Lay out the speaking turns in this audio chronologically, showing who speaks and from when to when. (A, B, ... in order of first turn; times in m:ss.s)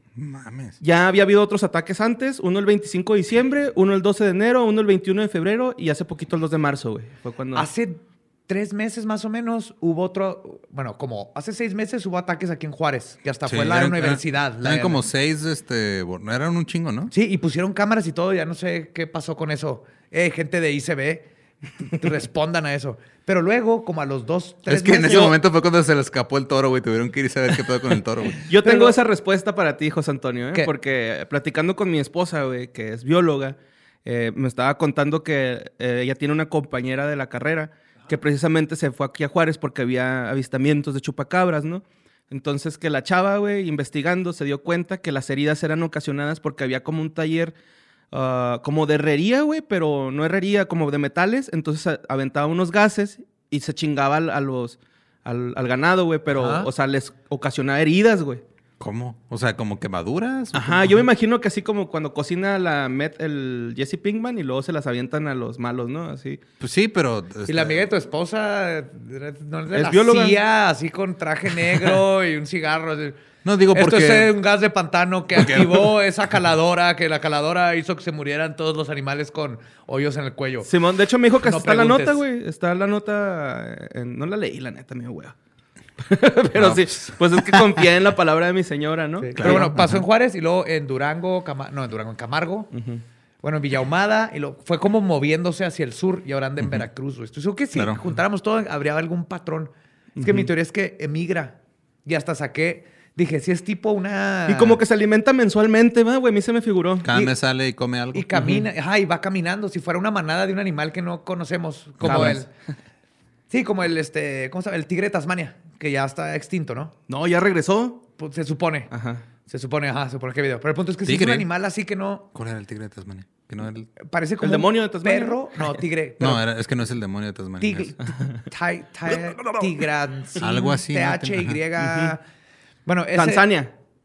0:00.2-0:00.8 A
0:00.8-0:07.7 B
0:07.5-0:15.0 C
0:13.5-0:17.1 A
0:17.1-0:21.3 C
0:21.8-0:25.3 C
0:24.7-0:28.4 A
0:25.1-0:25.3 B
0:28.4-0:47.5 B
0:28.6-0:29.0 C
0:48.1-0:58.4 B
0:56.3-0:56.7 C
0:58.8-1:01.1 A
1:00.5-1:06.4 B
1:06.6-1:07.8 A
1:07.5-1:13.2 C
1:09.7-1:10.4 B
1:13.4-1:14.3 A
1:13.7-1:20.7 C
1:15.3-1:15.9 A
1:20.6-1:25.3 B
1:21.4-1:22.2 C
1:26.0-1:29.7 B
1:26.5-1:27.8 A
1:29.2-1:32.7 C
1:29.4-1:30.0 A
1:32.7-1:33.0 B
1:33.4-1:44.8 C
1:37.7-1:38.0 A
1:40.2-1:40.5 B
1:44.5-1:47.1 B
1:47.0-1:48.3 A
1:48.1-1:52.5 C
1:48.3-1:48.6 B
1:52.0-1:52.4 A
1:52.1-1:52.3 B
1:53.5-1:56.9 C
1:57.1-1:58.0 B
1:58.2-1:58.9 C
1:58.9-1:59.2 B
1:59.4-2:02.3 C
2:01.0-2:01.5 A
2:02.3-2:03.9 A
2:04.0-2:06.4 C
2:04.4-2:05.8 B
2:06.2-2:07.9 A
2:07.6-2:12.2 C
2:10.4-2:11.6 A
2:11.8-2:12.1 B
2:12.8-2:13.4 C
2:13.1-2:13.7 B